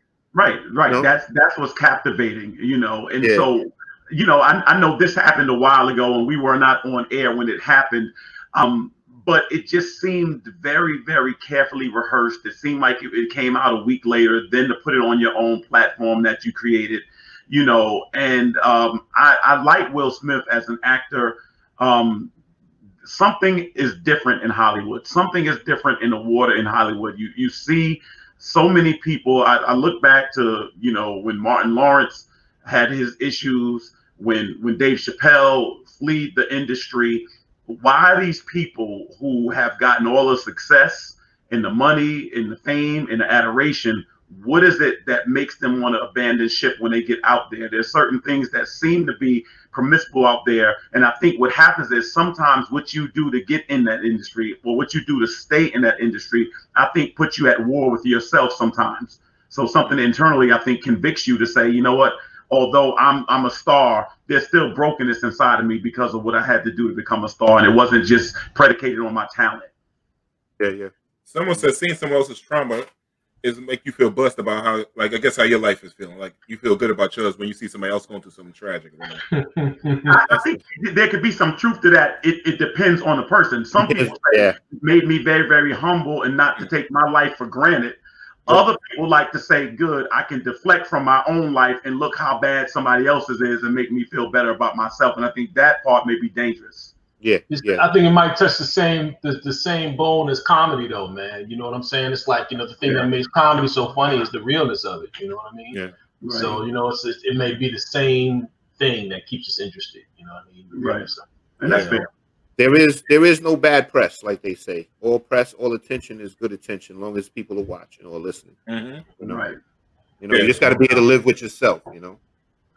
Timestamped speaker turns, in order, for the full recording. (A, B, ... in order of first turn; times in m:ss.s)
0:00.3-0:22.3 A
0:03.2-0:03.5 B
0:23.0-1:09.7 A
1:10.6-1:10.9 B
1:11.3-1:12.9 C
1:13.4-1:19.2 C
1:19.3-1:20.2 D
1:20.1-1:36.9 A
1:23.8-1:24.6 B
1:37.2-1:37.9 B
1:37.5-1:45.8 D
1:46.2-1:46.6 A
1:46.3-1:52.0 D
1:50.7-1:51.0 A
1:51.6-1:52.1 A
1:52.6-1:58.6 B
1:58.7-1:59.0 C
1:59.2-1:59.4 B
1:59.2-1:59.6 A
2:00.2-2:02.2 B
2:00.3-2:00.6 C
2:00.5-2:01.0 D